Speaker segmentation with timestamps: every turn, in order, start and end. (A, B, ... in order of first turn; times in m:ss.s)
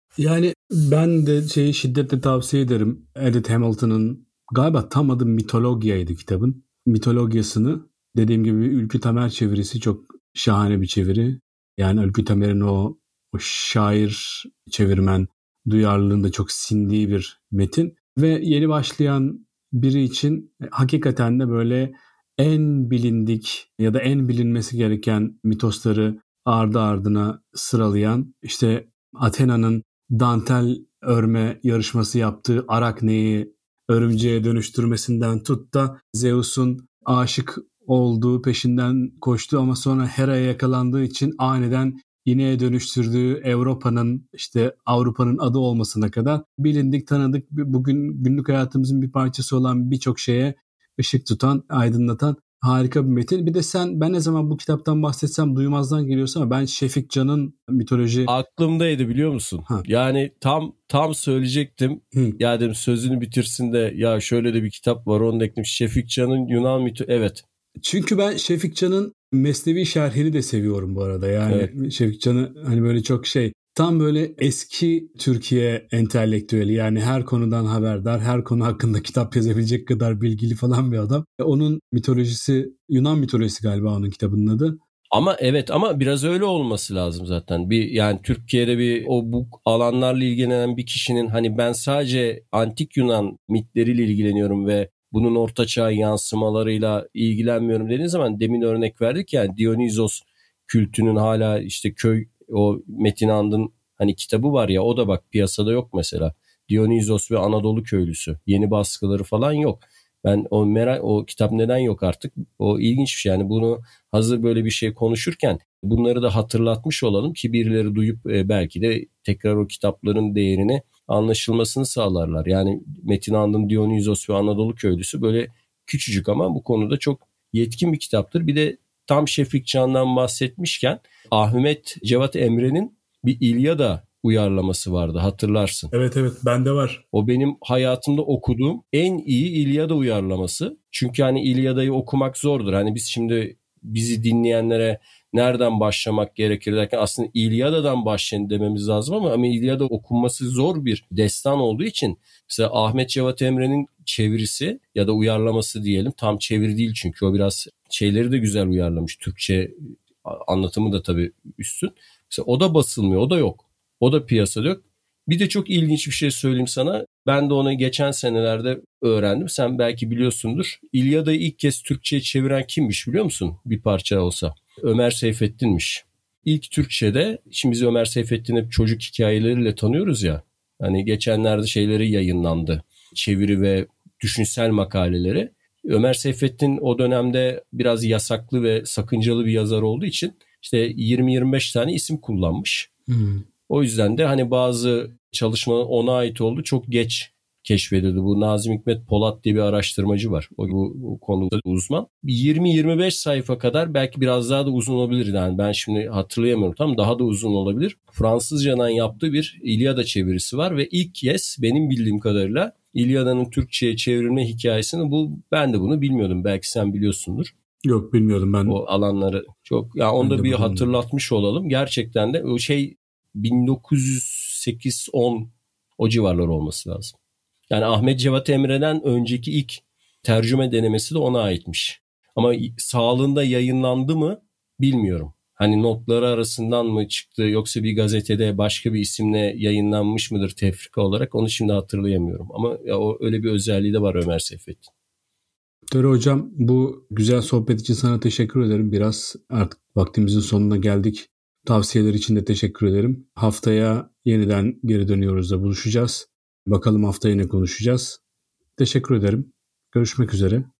0:00.2-0:58.3 A
0:58.2-1:07.4 B
1:07.8-1:24.8 A
1:25.1-2:15.9 B
2:15.9-2:17.0 A
2:17.1-3:12.9 B
3:13.1-3:13.4 A
3:13.7-3:37.5 B
3:37.8-3:38.8 A
3:38.7-3:47.1 B
3:40.2-3:41.0 A
3:47.7-4:04.9 B
4:05.9-4:18.2 A
4:18.8-4:20.7 A